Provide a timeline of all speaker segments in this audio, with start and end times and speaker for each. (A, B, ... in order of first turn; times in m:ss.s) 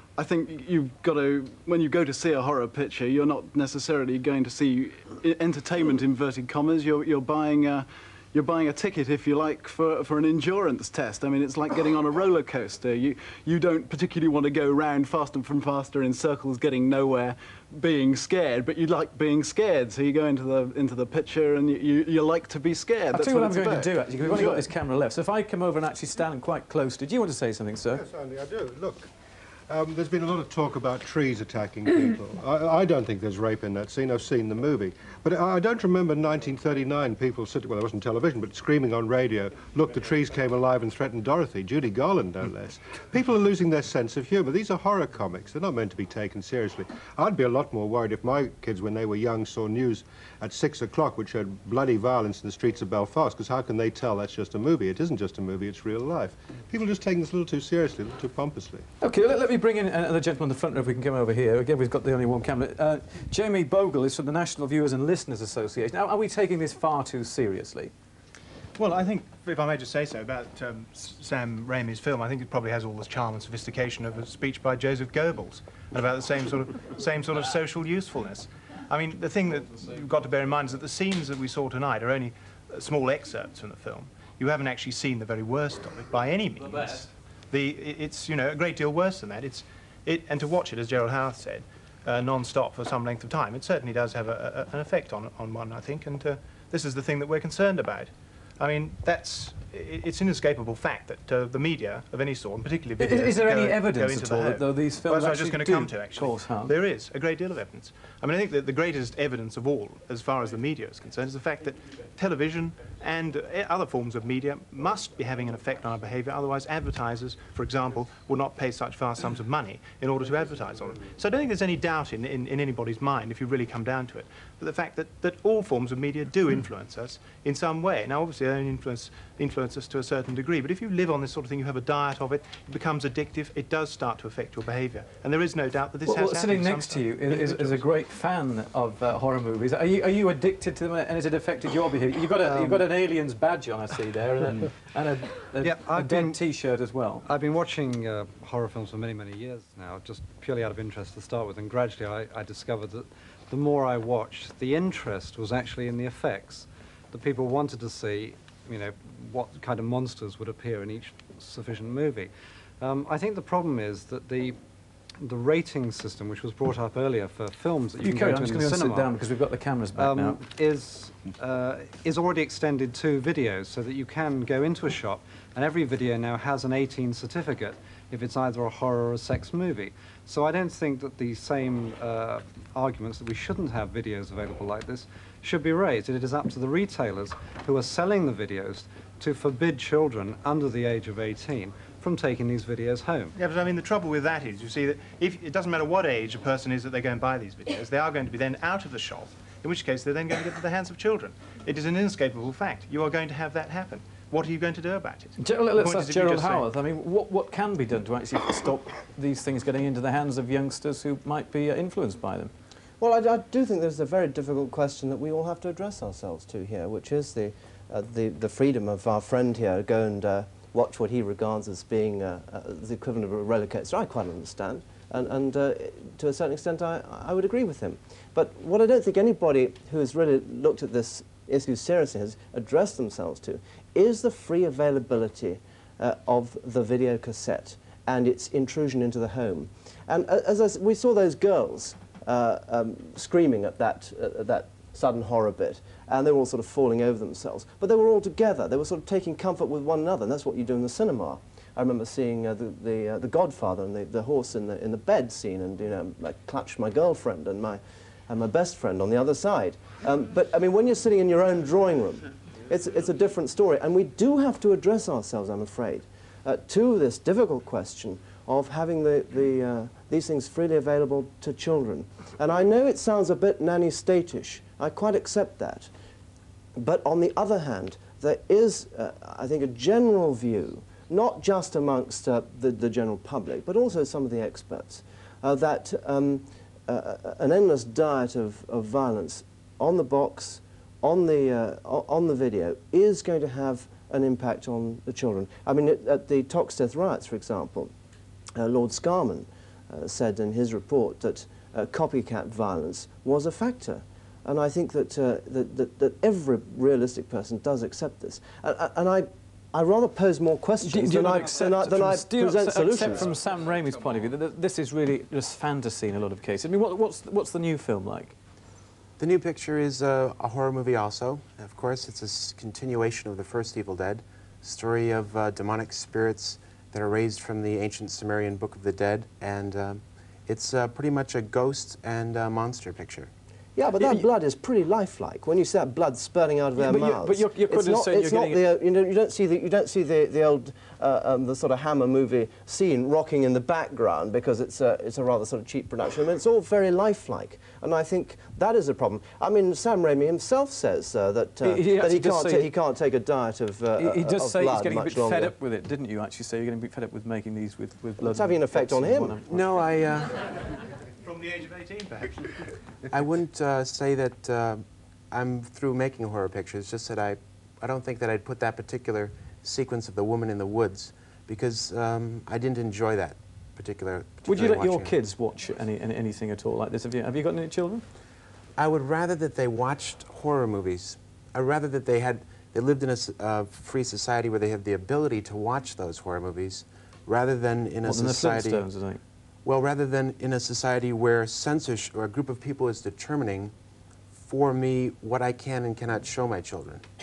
0:00.1-0:24.7 A
0:23.1-0:28.0 B
0:27.9-0:29.1 C
0:29.7-0:58.8 C
0:59.0-1:07.9 B
1:08.8-2:17.8 D
1:43.0-1:46.7 B
2:16.0-2:27.2 B
2:22.4-2:22.8 E
2:25.6-2:26.4 E
2:27.2-2:44.6 E
2:45.2-2:49.1 E
2:48.0-2:50.4 B
2:50.0-3:13.3 E
3:13.4-3:26.7 D
3:25.4-3:32.5 B
3:33.0-4:35.9 F
4:36.8-4:57.9 F
4:58.6-5:13.2 F
5:10.8-5:18.4 B
5:19.2-5:33.3 G
5:33.8-5:55.5 F
5:36.8-5:38.6 B
5:51.6-5:52.7 B
5:54.0-5:59.7 B
5:58.2-5:59.3 F
5:59.4-6:00.6 G
6:01.2-6:02.4 D
6:03.1-6:15.2 G
6:14.4-6:18.0 B
6:18.8-6:28.9 G
6:28.0-6:29.2 B
6:29.6-6:33.7 G
6:34.3-6:37.0 G